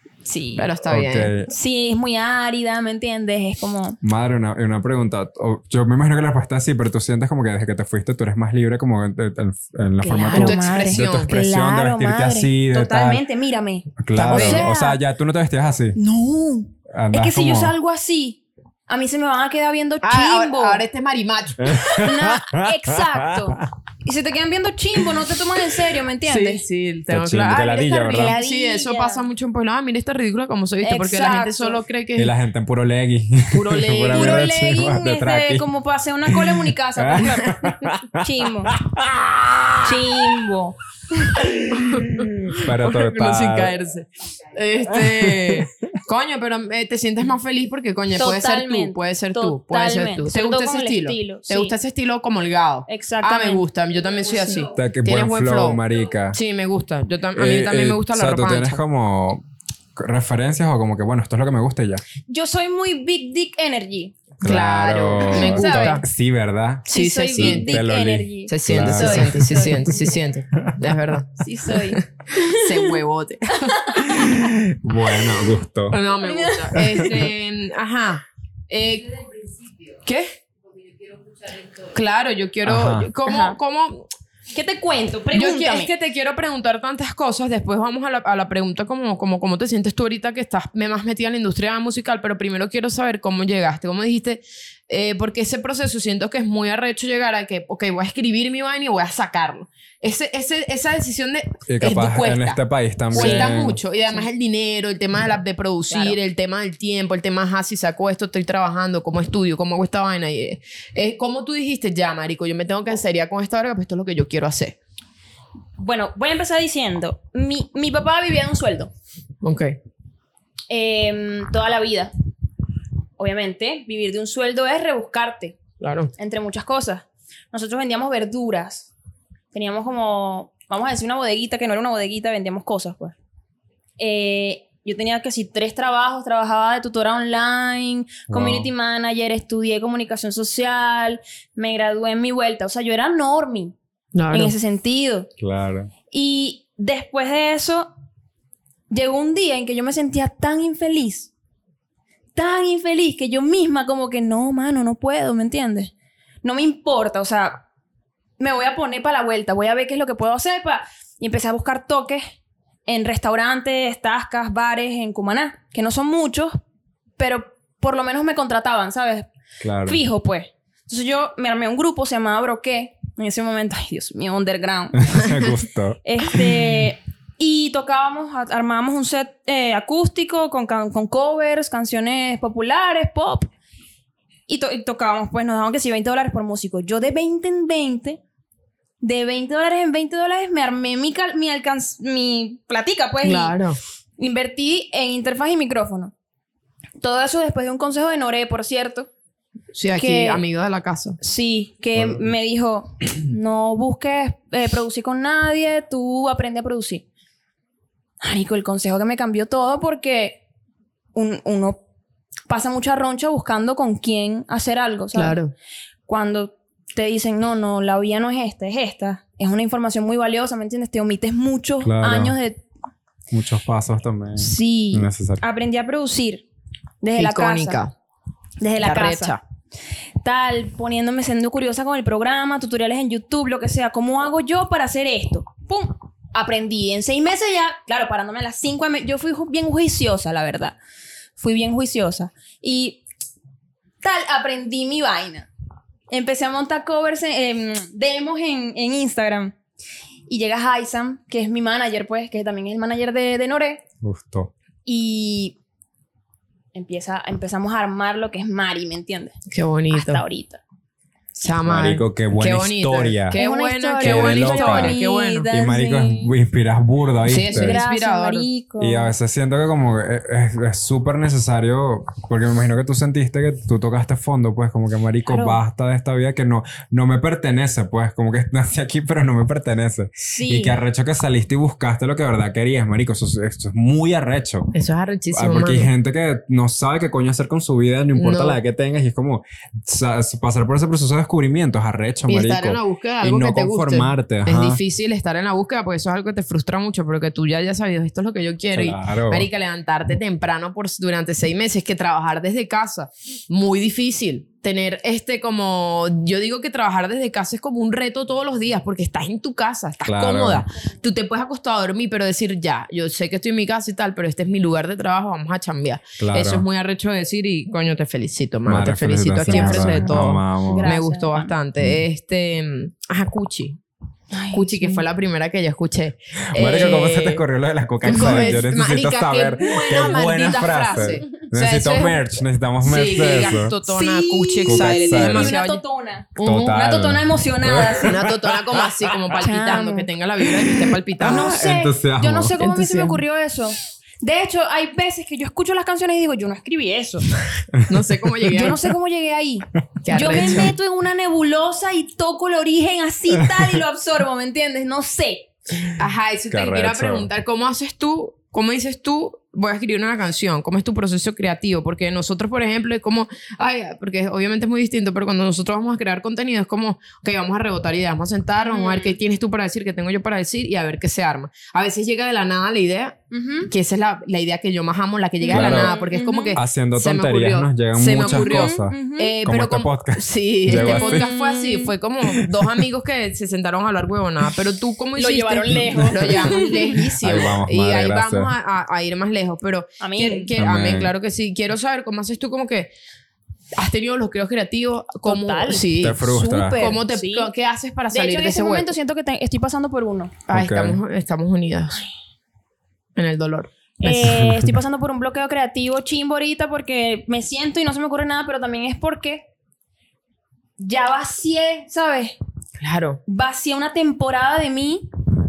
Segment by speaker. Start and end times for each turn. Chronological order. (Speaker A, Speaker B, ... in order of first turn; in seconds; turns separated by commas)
Speaker A: 0.2-0.7, Speaker B: 0.6-1.3, Speaker C: 0.9-1.5, Speaker A: 1.5-4.0, Speaker C: 4.0-13.2, Speaker A: 10.0-15.0, Speaker B: 10.2-11.3, Speaker C: 14.0-16.0, Speaker B: 14.2-14.7, Speaker A: 16.0-20.8, Speaker C: 16.9-17.8, Speaker B: 20.0-21.8, Speaker C: 21.6-23.7, Speaker A: 22.0-26.6, Speaker B: 26.3-32.3, Speaker C: 27.1-28.4, Speaker A: 28.1-29.2, Speaker A: 30.8-31.8, Speaker C: 32.2-35.7, Speaker B: 33.5-34.5, Speaker A: 34.1-38.7, Speaker C: 36.3-40.0, Speaker A: 39.8-40.8, Speaker C: 41.4-43.8, Speaker B: 41.7-58.8, Speaker C: 44.9-45.7, Speaker A: 48.2-51.7, Speaker A: 52.9-53.6, Speaker C: 54.7-56.4, Speaker C: 57.4-59.4, Speaker C: 60.0-62.0, Speaker A: 62.3-64.2, Speaker C: 64.4-69.9, Speaker B: 64.4-66.0, Speaker A: 65.2-66.0, Speaker A: 66.9-70.1, Speaker B: 66.9-67.8, Speaker B: 68.5-74.0, Speaker C: 70.6-70.8, Speaker A: 71.4-72.9, Speaker A: 73.7-74.5, Speaker C: 74.1-76.0, Speaker B: 75.9-80.3, Speaker A: 76.2-77.0, Speaker C: 76.8-77.2, Speaker B: 81.5-84.1, Speaker C: 82.6-83.1, Speaker A: 83.3-83.6, Speaker A: 84.5-85.9, Speaker B: 85.3-102.6, Speaker C: 101.7-103.8, Speaker B: 103.1-114.8, Speaker A: 103.1-103.6, Speaker A: 105.9-106.2, Speaker A: 115.8-118.9, Speaker B: 119.4-119.8, Speaker A: 120.7-122.1, Speaker A: 123.2-125.6, Speaker B: 125.8-126.1, Speaker A: 126.2-128.9, Speaker A: 129.5-133.2, Speaker A: 134.0-143.8, Speaker C: 138.3-138.7, Speaker B: 144.1-144.6, Speaker A: 144.3-145.3, Speaker C: 145.4-145.9, Speaker A: 146.1-147.9, Speaker A: 148.9-151.3, Speaker A: 152.3-155.9, Speaker A: 156.4-157.6, Speaker A: 158.4-162.3, Speaker A: 162.9-166.6, Speaker A: 167.2-169.3, Speaker C: 169.6-170.0, Speaker A: 169.8-175.3, Speaker C: 175.0-176.0, Speaker A: 176.1-183.5, Speaker A: 184.5-188.2, Speaker A: 189.0-193.6, Speaker B: 193.2-193.8, Speaker A: 194.2-196.1, Speaker A: 197.0-199.1, Speaker B: 199.7-201.2, Speaker A: 200.0-200.4, Speaker A: 201.2-207.1, Speaker C: 201.9-202.3, Speaker A: 208.2-210.4, Speaker A: 211.2-211.8, Speaker A: 212.5-215.4, Speaker B: 215.1-215.5, Speaker A: 216.1-222.6, Speaker C: 221.8-222.3, Speaker C: 223.3-225.4, Speaker A: 224.4-226.4, Speaker A: 227.0-227.8, Speaker B: 227.2-227.9, Speaker A: 228.6-229.4, Speaker B: 228.8-229.4, Speaker A: 230.2-240.8, Speaker A: 241.4-243.0, Speaker A: 244.0-245.5, Speaker A: 246.1-249.6, Speaker A: 250.3-253.8, Speaker C: 254.0-254.5, Speaker A: 254.8-255.6, Speaker A: 256.7-259.4, Speaker B: 259.5-260.2, Speaker A: 259.9-260.6, Speaker B: 261.4-265.5, Speaker C: 261.6-263.4, Speaker A: 263.3-266.3, Speaker C: 264.0-265.0, Speaker C: 265.5-267.8, Speaker B: 267.3-268.5, Speaker A: 267.5-269.1, Speaker C: 268.8-284.7, Speaker A: 275.3-275.6, Speaker A: 280.2-280.8, Speaker B: 284.7-285.9, Speaker C: 285.3-294.8, Speaker B: 288.2-288.6, Speaker B: 292.3-323.8, Speaker C: 298.7-299.5, Speaker C: 310.1-310.7, Speaker C: 316.2-316.7, Speaker C: 318.7-320.9, Speaker A: 319.5-321.5, Speaker A: 324.3-325.0, Speaker B: 324.5-327.4, Speaker C: 326.5-333.7, Speaker B: 328.0-332.2, Speaker A: 328.1-328.6, Speaker A: 329.9-331.3, Speaker B: 332.8-335.8, Speaker A: 333.6-338.1, Speaker C: 334.7-335.6, Speaker B: 336.4-336.8, Speaker C: 336.4-339.4, Speaker B: 338.0-341.6, Speaker A: 339.4-340.1, Speaker C: 340.5-342.6, Speaker A: 341.2-347.3, Speaker B: 342.6-343.2, Speaker C: 347.7-348.0, Speaker B: 347.9-348.8, Speaker A: 348.5-355.5, Speaker B: 350.0-350.7, Speaker C: 353.3-353.8, Speaker B: 356.0-392.9, Speaker C: 356.5-357.3, Speaker A: 368.6-369.2, Speaker A: 373.3-373.7, Speaker A: 375.4-376.6, Speaker C: 375.5-375.9, Speaker C: 376.6-381.3, Speaker A: 378.2-379.4, Speaker A: 380.7-381.9, Speaker C: 382.3-382.9, Speaker A: 385.2-387.0, Speaker C: 385.7-388.5, Speaker A: 390.0-390.5, Speaker C: 390.6-391.1, Speaker B: 393.8-398.9, Speaker A: 395.2-397.5, Speaker C: 396.0-396.8, Speaker A: 398.1-400.3, Speaker B: 400.5-402.0, Speaker C: 400.5-401.0, Speaker B: 403.2-404.4, Speaker A: 404.0-409.5, Speaker C: 404.3-404.7, Speaker A: 410.8-412.4, Speaker B: 412.8-413.2, Speaker A: 413.3-415.1